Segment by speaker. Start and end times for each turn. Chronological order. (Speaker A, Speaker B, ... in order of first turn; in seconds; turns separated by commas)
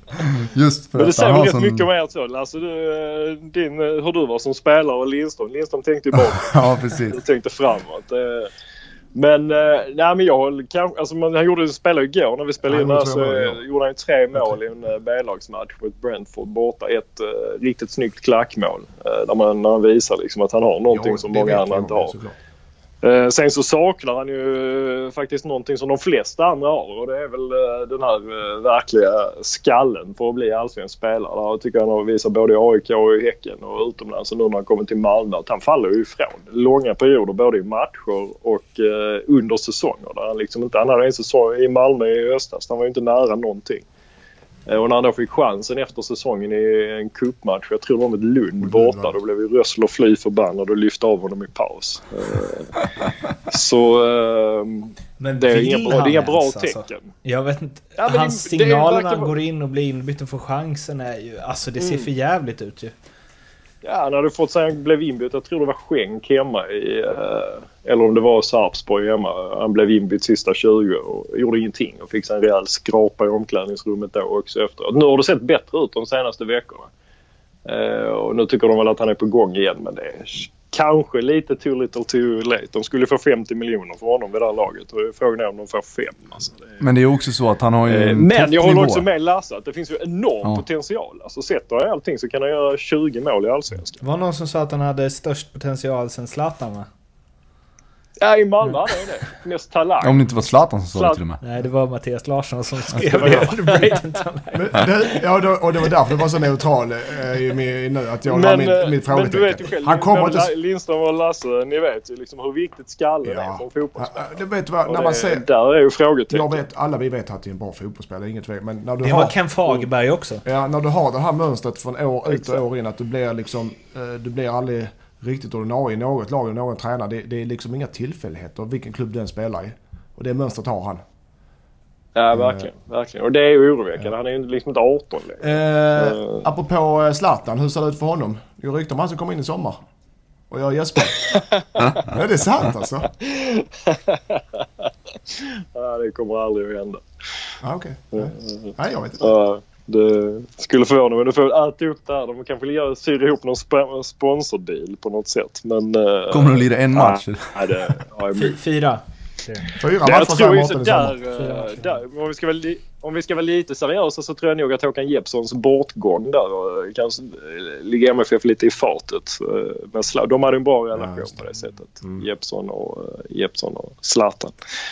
Speaker A: 0.1-1.9, Speaker B: 0.9-8.5, Speaker A: 6.1-7.2, Speaker B: 9.1-22.1, Speaker C: 12.7-13.6, Speaker C: 20.9-22.4, Speaker B: 23.0-43.8, Speaker B: 44.7-52.8, Speaker C: 48.6-49.1, Speaker B: 53.5-57.1, Speaker D: 55.2-62.9, Speaker B: 58.0-59.3, Speaker B: 61.8-62.0, Speaker B: 63.8-76.9, Speaker B: 77.7-86.7, Speaker A: 86.8-89.1, Speaker B: 87.9-94.0, Speaker D: 94.0-96.9, Speaker B: 98.2-100.3, Speaker A: 100.0-101.4, Speaker B: 100.8-101.2, Speaker D: 101.4-105.0, Speaker B: 103.1-103.9, Speaker C: 104.5-110.5, Speaker B: 108.2-114.3, Speaker C: 113.2-115.4, Speaker B: 114.9-116.6, Speaker C: 116.3-119.9, Speaker D: 119.0-120.4, Speaker C: 120.4-131.0, Speaker B: 122.3-122.6, Speaker B: 132.2-136.5, Speaker C: 132.3-132.7, Speaker C: 135.4-139.8, Speaker C: 140.5-141.4, Speaker B: 141.3-141.6, Speaker C: 142.0-143.1, Speaker B: 143.2-147.0, Speaker C: 147.6-149.4, Speaker B: 148.1-158.6, Speaker A: 156.3-158.0, Speaker D: 158.3-159.7, Speaker C: 159.8-161.2, Speaker B: 160.0-174.5, Speaker D: 161.3-161.9, Speaker C: 170.9-171.4